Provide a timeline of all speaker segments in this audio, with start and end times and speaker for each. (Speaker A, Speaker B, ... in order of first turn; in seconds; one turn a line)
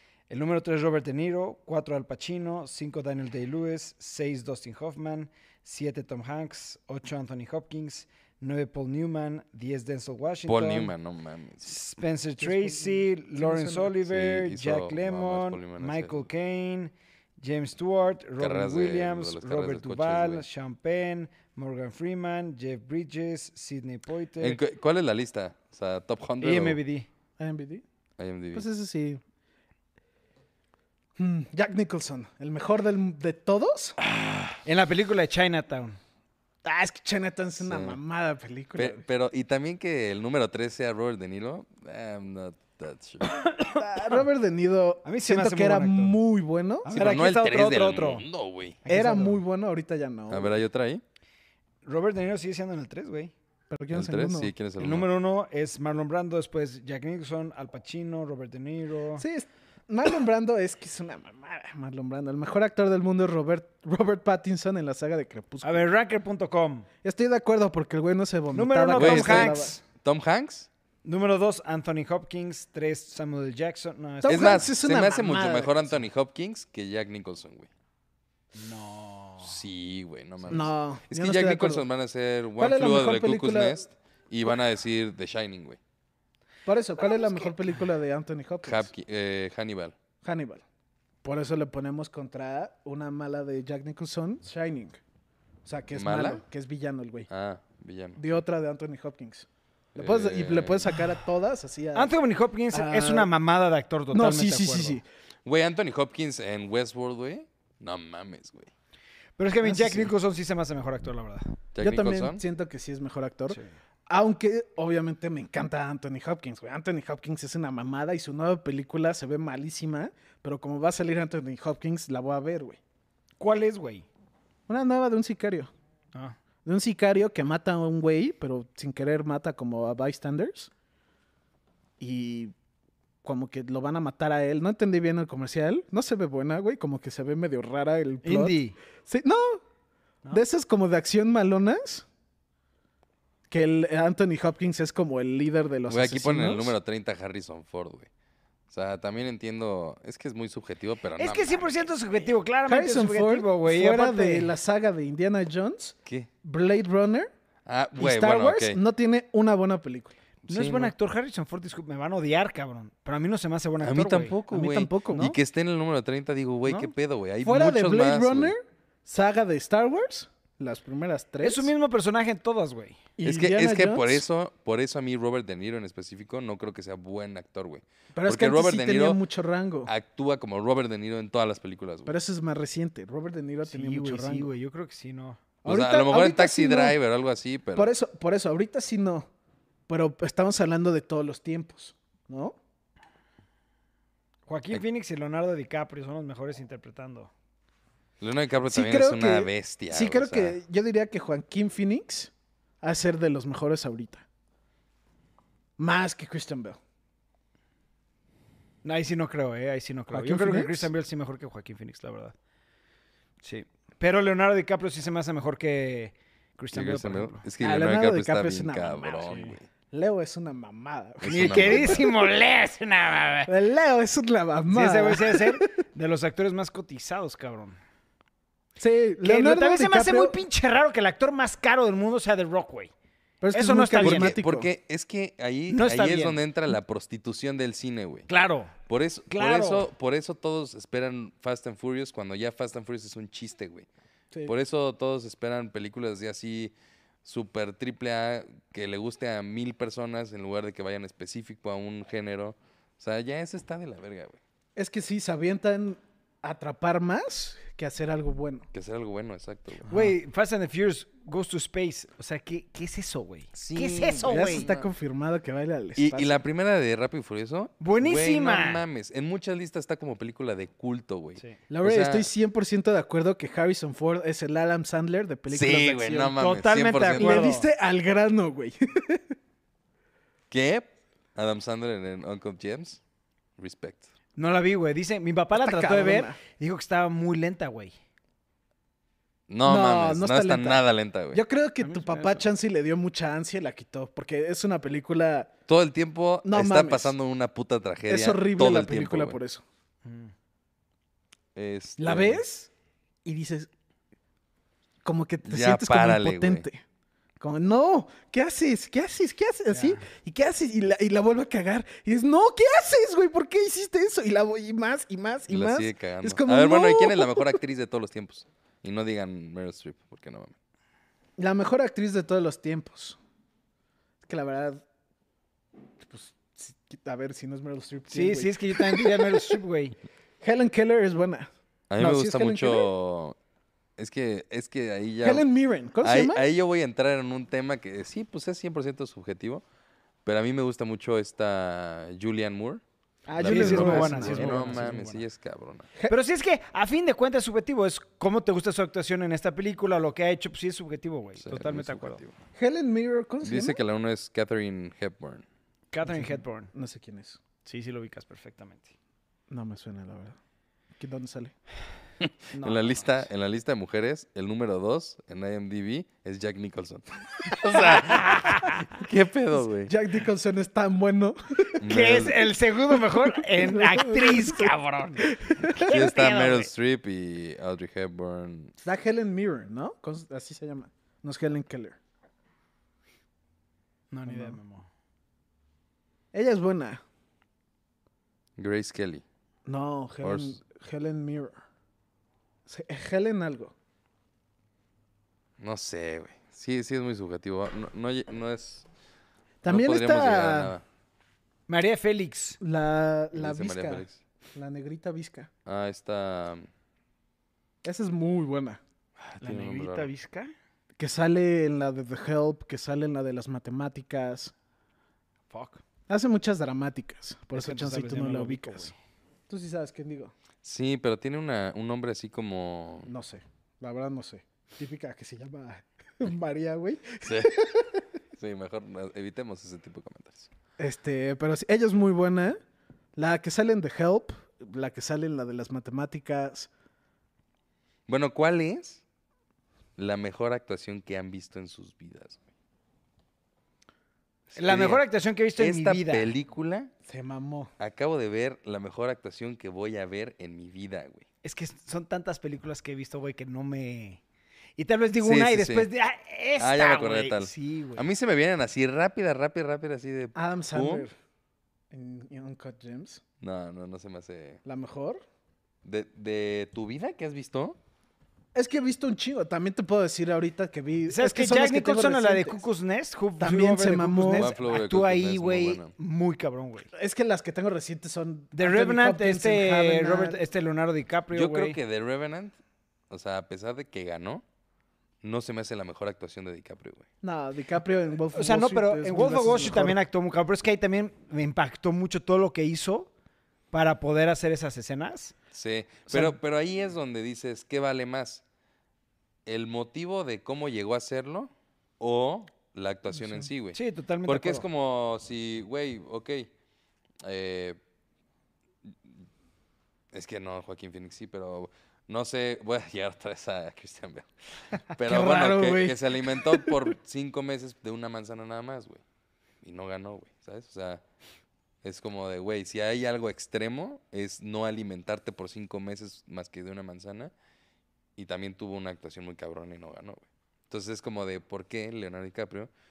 Speaker A: 0.3-10.9
Speaker B: 10.5-11.7
Speaker A: 11.6-24.6
Speaker C: 12.4-13.9
Speaker B: 14.0-16.3
Speaker B: 18.4-20.5
Speaker B: 24.4-26.8
Speaker A: 26.4-27.1
Speaker C: 27.4-27.8
Speaker B: 28.2-28.7
Speaker C: 28.5-29.2
Speaker C: 31.2-34.0
Speaker B: 34.0-34.6
Speaker A: 34.6-36.0
Speaker C: 36.6-39.0
Speaker B: 37.6-38.0
Speaker B: 38.8-43.3
Speaker A: 43.2-44.2
Speaker C: 43.8-47.0
Speaker A: 45.0-46.2
Speaker A: 46.8-48.2
Speaker B: 46.9-48.8
Speaker A: 48.8-49.4
Speaker C: 48.9-50.6
Speaker B: 50.3-51.0
Speaker A: 51.9-53.3
Speaker C: 53.7-54.5
Speaker B: 53.9-55.1
Speaker A: 54.8-59.2
Speaker C: 59.2-65.8
Speaker A: 65.6-66.9
Speaker C: 67.0-69.8
Speaker A: 68.5-69.8
Speaker B: 69.0-70.7
Speaker A: 71.0-74.7
Speaker C: 74.2-75.7
Speaker B: 74.3-77.7
Speaker A: 78.5-79.6
Speaker B: 79.4-85.8
Speaker C: 80.5-81.8
Speaker C: 82.6-83.8
Speaker C: 86.7-88.9
Speaker B: 88.6-90.0
Speaker C: 90.2-90.6
Speaker C: 91.2-95.0
Speaker C: 95.7-97.3
Speaker B: 95.9-96.4
Speaker B: 97.3-98.4
Speaker C: 98.2-102.1
Speaker B: 100.0-101.1
Speaker A: 102.0-105.0
Speaker C: 102.7-103.3
Speaker C: 104.1-105.0
Speaker B: 105.5-108.7
Speaker A: 109.4-111.6
Speaker C: 109.6-110.1
Speaker B: 111.7-112.4
Speaker C: 111.8-122.8
Speaker A: 123.4-124.1
Speaker C: 124.7-125.7
Speaker C: 126.7-130.7
Speaker C: 132.0-132.5
Speaker C: 133.2-139.6
Speaker A: 138.2-138.8
Speaker C: 140.3-142.1
Speaker C: 143.5-146.8
Speaker B: 145.9-148.1
Speaker B: 148.7-151.9
Speaker A: 151.2-154.5
Speaker C: 152.7-157.3
Speaker B: 157.7-158.8
Speaker C: 158.0-160.2
Speaker B: 160.5-160.9
Speaker A: 160.5-164.4
Speaker B: 163.8-168.5
Speaker C: 164.5-165.4
Speaker C: 167.4-171.7
Speaker A: 171.4-173.0
Speaker C: 173.2-174.3
Speaker B: 173.2-179.2
Speaker C: 178.2-179.9
Speaker B: 179.9-182.1
Speaker C: 182.1-184.5
Speaker A: 183.7-185.4
Speaker C: 185.7-187.0
Speaker B: 185.7-187.9
Speaker C: 187.8-189.3
Speaker C: 189.9-192.6
Speaker A: 194.5-197.3
Speaker B: 198.2-200.6
Speaker C: 198.7-204.2
Speaker C: 205.8-206.8
Speaker A: 208.8-212.3
Speaker C: 210.1-210.9
Speaker A: 213.4-217.4
Speaker B: 216.7-219.7
Speaker C: 217.6-222.1
Speaker A: 219.3-219.5
Speaker B: 221.2-222.1
Speaker A: 221.3-223.5
Speaker C: 223.5-225.7
Speaker A: 224.7-227.8
Speaker C: 228.8-230.4
Speaker A: 229.2-232.9
Speaker C: 233.4-234.7
Speaker A: 233.5-234.4
Speaker B: 234.0-238.3
Speaker A: 235.7-236.4
Speaker A: 238.3-238.7
Speaker B: 238.9-243.9
Speaker A: 239.3-239.9
Speaker B: 244.5-246.7
Speaker B: 247.2-254.4
Speaker C: 254.8-258.7
Speaker B: 258.7-259.9
Speaker C: 259.9-260.1
Speaker A: 259.9-264.7
Speaker B: 263.5-264.9
Speaker C: 264.3-266.4
Speaker B: 266.0-272.3
Speaker A: 267.8-268.8
Speaker C: 271.7-276.3
Speaker B: 275.5-277.5
Speaker A: 276.2-277.7
Speaker C: 277.1-279.3
Speaker B: 280.5-283.0
Speaker B: 283.6-284.1
Speaker A: 284.4-287.9
Speaker C: 285.5-286.4
Speaker B: 289.5-291.4
Speaker C: 289.6-295.5
Speaker A: 291.8-292.4
Speaker B: 295.7-299.4
Speaker C: 296.4-297.2
Speaker C: 298.1-299.6
Speaker A: 300.1-300.3
Speaker B: 301.6-302.4
Speaker C: 302.0-302.7
Speaker C: 303.2-303.7
Speaker C: 305.0-306.8
Speaker B: 305.5-306.7
Speaker C: 307.4-317.6
Speaker A: 309.7-310.1
Speaker B: 315.5-320.5
Speaker C: 321.4-323.2
Speaker C: 324.2-324.8
Speaker C: 326.0-329.6
Speaker A: 328.1-330.0
Speaker C: 330.4-332.9
Speaker B: 331.9-333.4
Speaker B: 334.0-335.5
Speaker C: 335.2-336.4
Speaker B: 336.0-339.6
Speaker B: 340.2-342.8
Speaker C: 343.3-344.9
Speaker B: 343.4-345.9
Speaker A: 343.4-345.2
Speaker A: 346.1-352.2
Speaker B: 351.4-352.3
Speaker C: 352.6-353.8
Speaker B: 353.4-355.4
Speaker A: 355.9-356.7
Speaker C: 356.1-357.4
Speaker A: 357.6-358.9
Speaker C: 359.5-360.4
Speaker C: 361.0-361.5
Speaker B: 362.2-369.9
Speaker A: 362.6-363.1
Speaker A: 367.9-368.8
Speaker C: 369.7-371.8
Speaker B: 371.8-372.4
Speaker A: 371.9-376.7
Speaker C: 373.2-375.9
Speaker B: 375.9-378.7
Speaker C: 378.8-382.0
Speaker A: 384.1-384.9
Speaker C: 384.3-384.6
Speaker C: 386.3-387.0
Speaker B: 388.6-389.2
Speaker C: 389.7-391.6
Speaker B: 390.2-390.6
Speaker C: 392.7-393.7
Speaker B: 395.6-398.9
Speaker C: 399.6-400.7
Speaker B: 399.6-400.8
Speaker A: 401.7-402.6
Speaker C: 402.6-404.0
Speaker B: 403.3-404.2
Speaker C: 404.6-405.5
Speaker B: 405.7-406.7
Speaker C: 407.8-408.8
Speaker B: 409.2-410.1
Speaker A: 409.4-410.5
Speaker C: 411.0-414.5
Speaker A: 415.5-415.8
Speaker C: 416.1-418.9
Speaker A: 417.5-418.9
Speaker C: 419.5-420.3
Speaker B: 420.6-423.1
Speaker C: 423.1-428.0
Speaker B: 427.2-427.6
Speaker B: 428.4-430.5
Speaker C: 430.8-432.6
Speaker C: 433.2-436.7
Speaker B: 438.1-439.0
Speaker B: 440.0-442.4
Speaker B: 444.5-445.0
Speaker A: 444.6-446.3
Speaker B: 445.6-446.9
Speaker C: 447.1-447.7
Speaker B: 447.8-451.2
Speaker A: 451.4-454.2
Speaker A: 454.8-458.1
Speaker B: 455.2-455.9
Speaker B: 456.6-461.1
Speaker C: 460.4-461.1
Speaker C: 461.9-463.2
Speaker B: 463.4-464.6
Speaker C: 464.6-465.2
Speaker B: 465.8-467.8
Speaker C: 468.5-472.6
Speaker A: 471.1-476.9
Speaker C: 473.4-474.5
Speaker B: 474.3-475.9
Speaker C: 476.9-480.4
Speaker A: 478.5-481.8
Speaker B: 481.3-482.5
Speaker B: 483.1-484.4
Speaker B: 485.2-487.0
Speaker C: 487.2-490.0
Speaker A: 488.3-493.1
Speaker A: 493.7-495.3
Speaker B: 495.5-498.4
Speaker A: 496.1-496.4
Speaker B: 499.5-506.5
Speaker A: 503.7-504.6
Speaker B: 507.2-507.8
Speaker B: 510.1-519.0
Speaker C: 515.0-516.9
Speaker B: 519.6-521.0
Speaker B: 521.8-527.3
Speaker B: 528.2-532.7